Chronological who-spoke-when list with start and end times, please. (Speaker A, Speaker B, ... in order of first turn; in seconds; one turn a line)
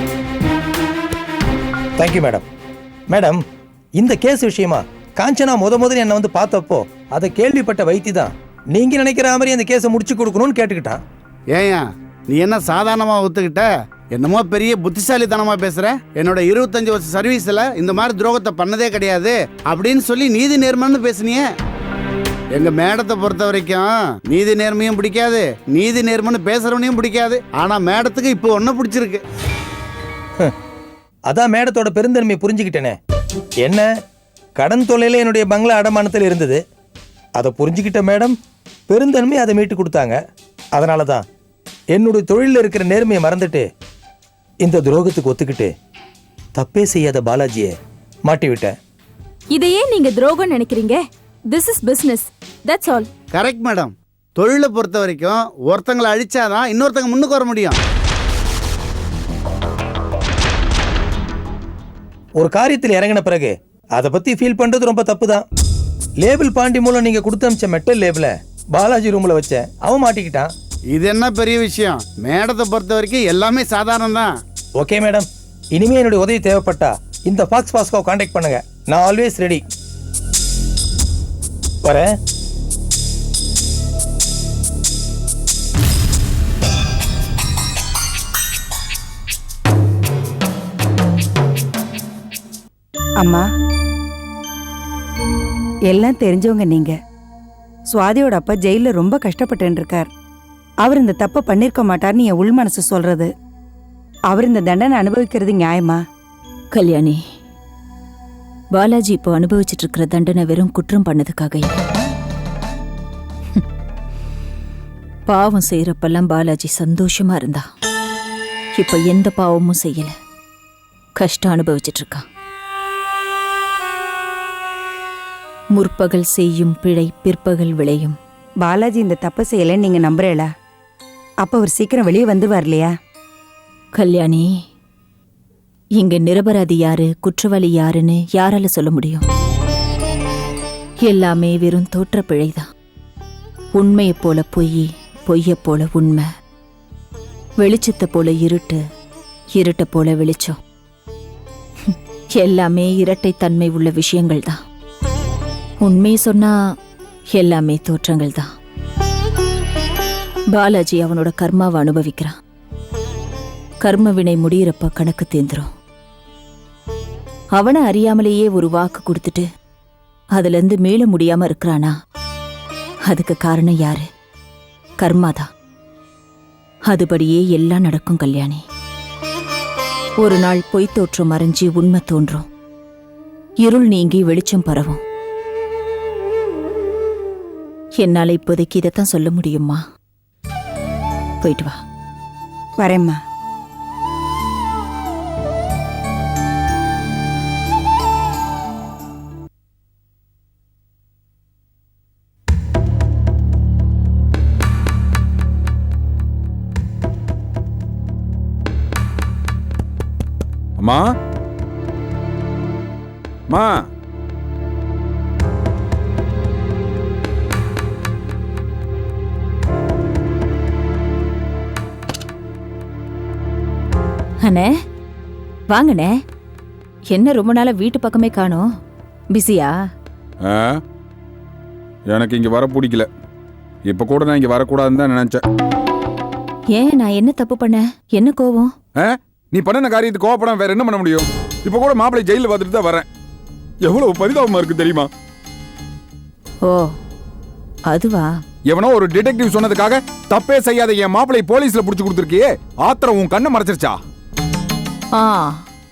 Speaker A: 2.0-2.4
Speaker A: 3.1-3.4
Speaker A: 4.0-11.0
Speaker B: 11.5-21.4
Speaker B: 22.5-29.2
Speaker A: 31.3-33.0
Speaker A: 34.6-36.6
Speaker A: 37.4-38.4
Speaker A: 38.9-40.1
Speaker A: 40.8-41.2
Speaker A: 41.9-43.6
Speaker A: 44.6-45.7
Speaker A: 46.6-47.7
Speaker A: 48.3-48.7
Speaker C: 49.5-53.1
Speaker B: 53.3-57.8
Speaker A: 62.4-65.4
Speaker A: 66.2-70.5
Speaker B: 70.9-74.3
Speaker A: 74.8-79.6
Speaker A: 81.8-82.1
Speaker D: 95.9-96.9
Speaker D: 97.9-100.1
Speaker D: 100.8-103.3
Speaker D: 104.3-106.0
Speaker E: 106.7-107.2
Speaker E: 108.7-111.7
Speaker E: 115.3-117.6
Speaker E: 118.8-120.1
Speaker E: 121.2-122.2
Speaker E: 125.7-128.1
Speaker D: 128.6-130.4
Speaker D: 131.4-132.9
Speaker E: 134.0-134.5
Speaker E: 136.0-139.2
Speaker E: 141.0-142.6
Speaker E: 143.7-146.3
Speaker E: 147.6-148.8
Speaker E: 149.6-150.6
Speaker E: 151.9-154.6
Speaker E: 155.8-156.6
Speaker E: 157.3-158.5
Speaker E: 160.5-162.3
Speaker E: 163.8-165.7
Speaker E: 167.5-169.4
Speaker E: 170.3-171.9
Speaker E: 173.1-174.1
Speaker E: 175.0-175.5
Speaker E: 176.9-178.6
Speaker E: 180.2-182.4
Speaker E: 183.6-185.0
Speaker E: 188.0-189.8
Speaker E: 191.4-191.8
Speaker D: 192.8-193.2
Speaker F: 210.8-211.1
Speaker F: 213.5-213.8
Speaker E: 224.4-224.7
Speaker E: 225.7-226.1
Speaker E: 227.1-228.7
Speaker E: 229.3-229.7
Speaker F: 230.4-230.8
Speaker F: 232.1-233.1
Speaker F: 233.8-235.4
Speaker E: 236.7-238.7
Speaker F: 239.0-243.1
Speaker F: 243.8-245.1
Speaker E: 246.6-246.9
Speaker E: 247.9-248.3
Speaker F: 248.7-253.9
Speaker E: 255.1-255.6